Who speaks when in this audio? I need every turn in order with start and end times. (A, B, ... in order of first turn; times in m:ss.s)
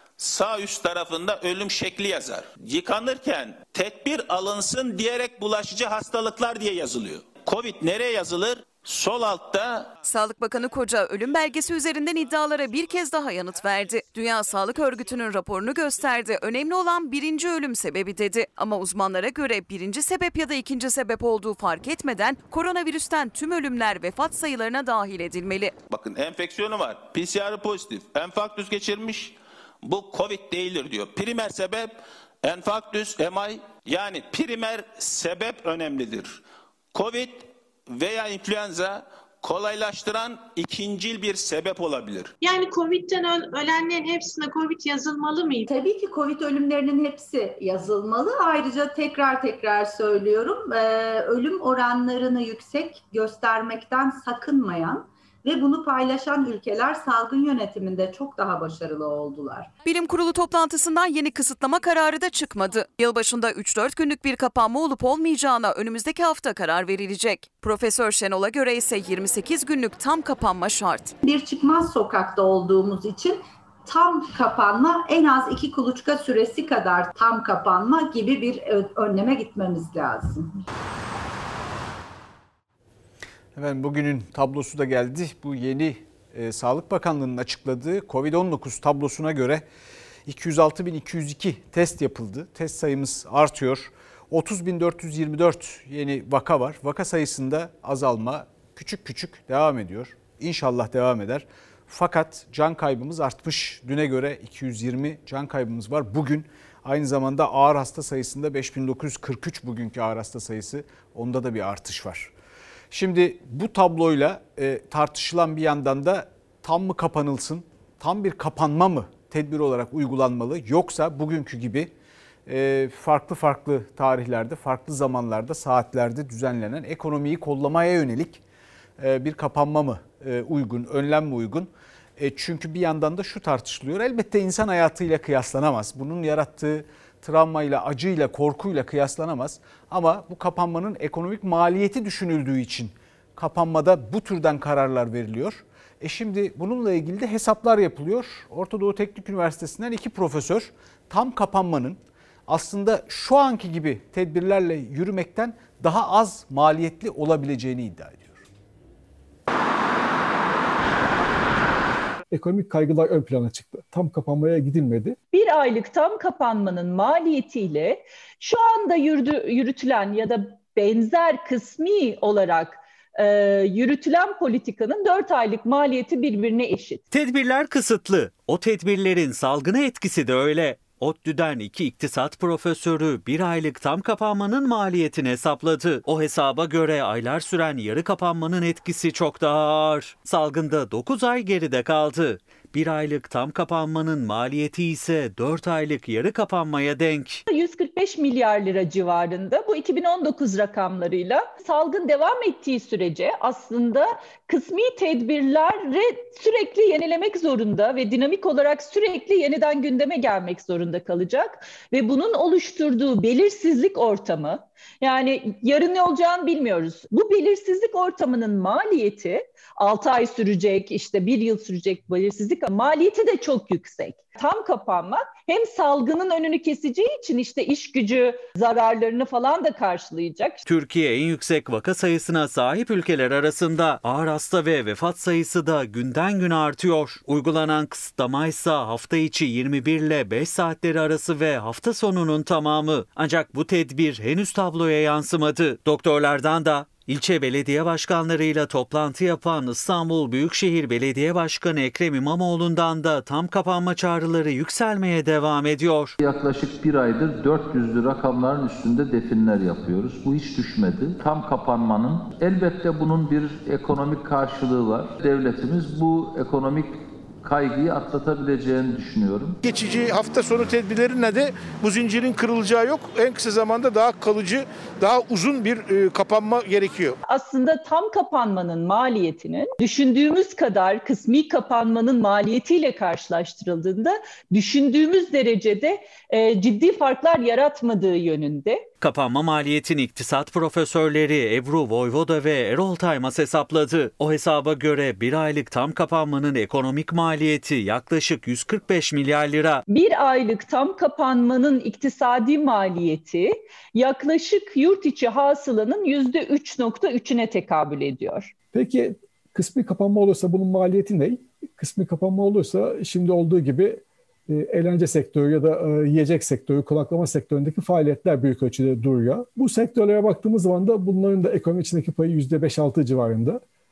0:00.2-0:09.9 A
0:10.0-0:25.8 B
0:25.9-0:36.4 A
0:36.9-0:42.3 A
0:42.4-0:45.7 C
0:45.7-0:59.7 D
0:59.8-1:11.2 B
1:11.2-1:20.5 D
1:23.6-1:29.7 E
1:30.3-1:52.3 E
1:52.9-2:01.9 E
2:02.5-2:08.4 E
2:09.0-2:38.4 E
2:42.3-2:45.2 F
2:45.3-2:57.0 G
2:57.1-3:17.4 H
3:17.5-3:50.6 G
3:50.7-4:16.2 H
4:16.2-4:29.6 I
4:29.6-4:37.2 J
4:37.3-4:48.9 G
4:49.0-4:59.8 H
4:59.9-5:08.5 G
5:08.7-5:23.6 F